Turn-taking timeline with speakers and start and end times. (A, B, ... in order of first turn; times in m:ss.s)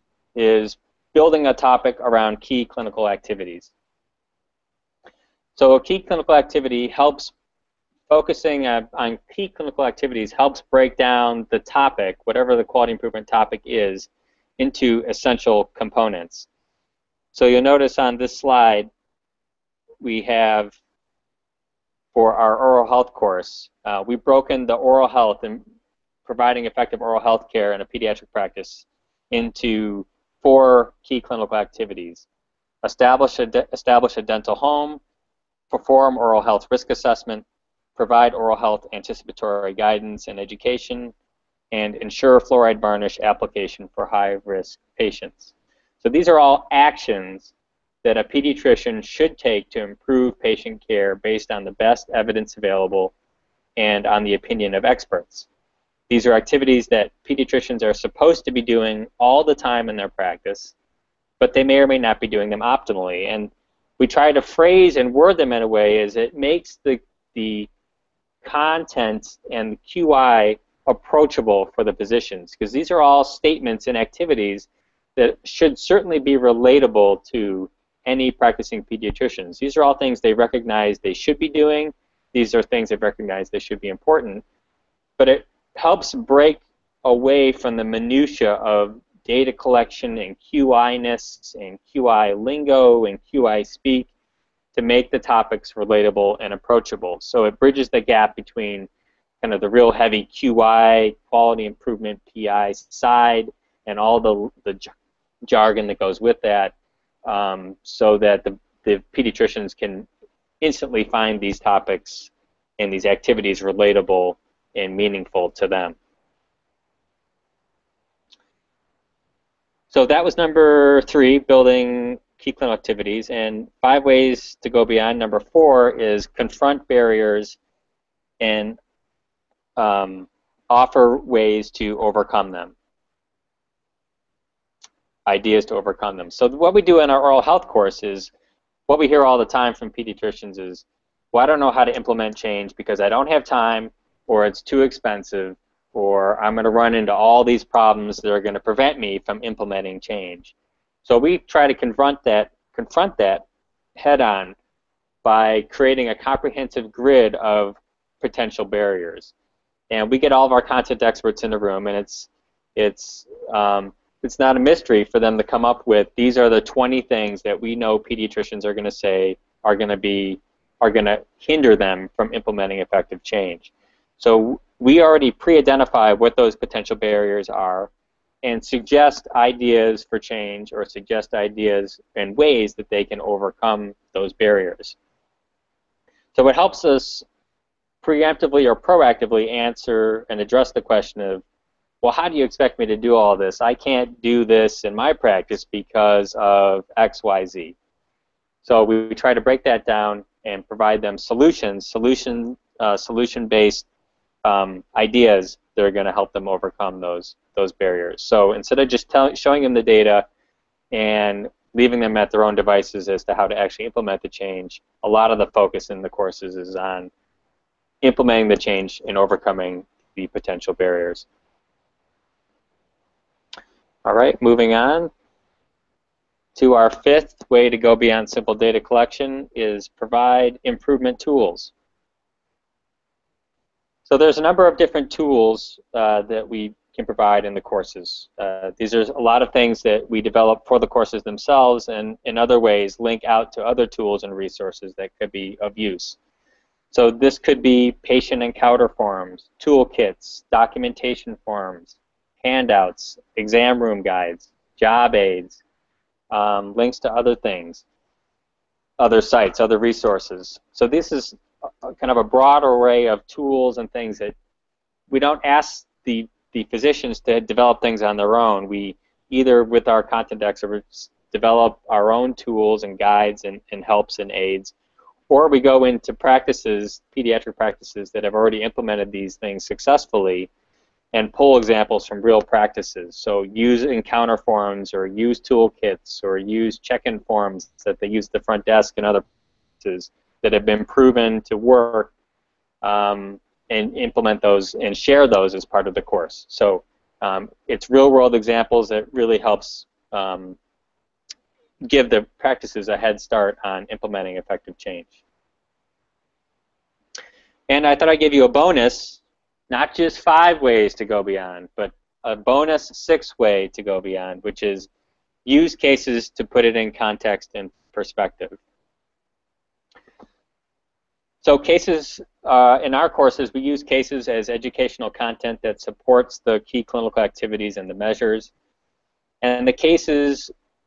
0:00.4-0:03.7 A
0:05.6-0:07.3 A
0:08.1-0:14.1 A
0:14.6-0:16.5 A
0:17.3-0:18.9 A
0:20.0-0:20.8 A
0:22.1-0:25.6 A
0:26.2-0:32.3 A
0:32.8-0:35.0 A
0:35.7-0:37.4 A
0:38.0-0:41.1 A
0:41.7-0:47.5 A
0:48.0-0:53.1 A
0:53.8-0:55.5 A
0:56.1-1:00.8 A
1:01.4-1:07.7 A
1:08.4-1:24.4 A
1:25.2-1:34.1 A
1:34.7-1:38.9 A
1:39.4-1:44.9 A
1:45.5-1:46.7 A
1:47.3-1:50.1 A
1:50.6-1:56.0 A
1:59.9-2:07.6 A
2:08.4-2:08.8 A
2:09.8-2:12.8 A
2:15.3-2:18.3 A
2:18.9-2:30.5 A
2:31.0-2:33.4 A
2:34.0-2:34.6 A
2:35.2-2:39.3 A
2:39.9-2:57.9 A
2:58.4-3:05.0 A
3:06.3-3:07.3 A
3:08.0-3:11.4 A
3:12.0-3:17.8 A
3:18.6-3:23.9 A
3:24.4-3:30.3 A
3:30.9-3:37.1 A
3:38.0-3:41.3 A
3:44.0-3:45.1 A
3:46.6-3:51.7 A
3:54.1-4:06.2 A
4:06.9-4:15.6 A
4:16.3-4:17.8 A
4:19.0-4:24.4 A
4:25.1-4:34.7 A
4:35.3-4:40.5 A
4:41.1-4:49.2 A
4:49.8-4:52.1 A
4:52.8-5:00.6 A
5:01.8-5:05.2 A
5:07.7-5:14.9 A
5:15.4-5:18.6 A
5:21.4-5:28.5 A
5:29.4-5:30.5 A